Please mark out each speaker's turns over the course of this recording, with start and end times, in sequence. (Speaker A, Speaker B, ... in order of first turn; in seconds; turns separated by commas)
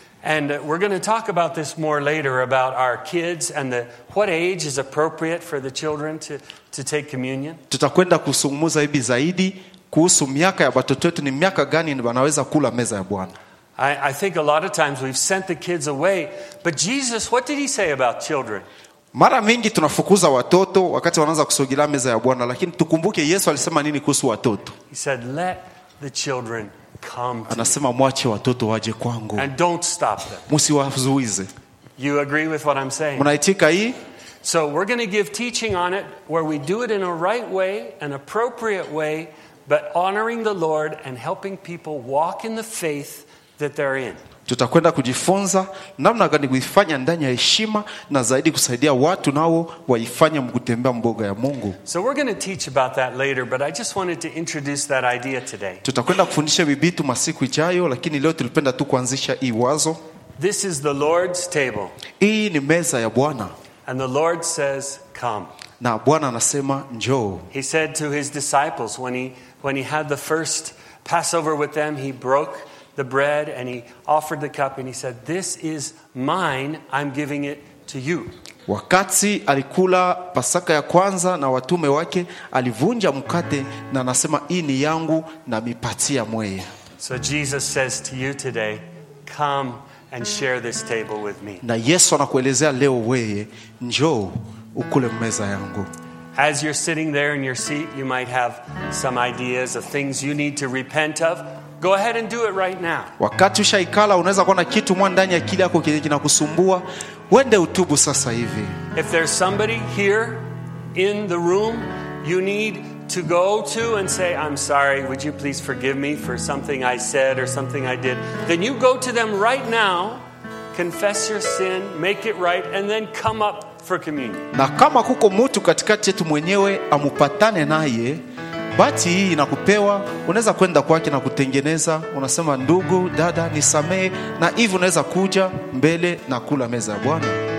Speaker A: 0.2-7.6, Speaker B: 7.7-13.3, Speaker A: 13.8-18.7, Speaker B: 19.1-24.7, Speaker A: 24.9-27.8, Speaker B: 27.5-29.5, Speaker A: 29.4-30.5, Speaker B: 30.5-31.5, Speaker A: 32.0-33.3, Speaker B: 33.2-34.0, Speaker A: 34.4-44.2, Speaker B: 44.5-51.8, Speaker A: 51.9-55.8, Speaker B: 55.8-60.0, Speaker A: 60.4-62.0, Speaker B: 62.2-63.5, Speaker A: 63.9-65.5, Speaker B: 65.8-67.5, Speaker A: 67.5-78.3, Speaker B: 78.7-86.7, Speaker A: 87.0-91.6, Speaker B: 91.6-95.9, Speaker A: 96.3-103.1, Speaker B: 103.2-108.8, Speaker A: 108.9-120.2, Speaker A: 120.7-124.5, Speaker B: 124.5-128.2, Speaker B: 128.8-137.4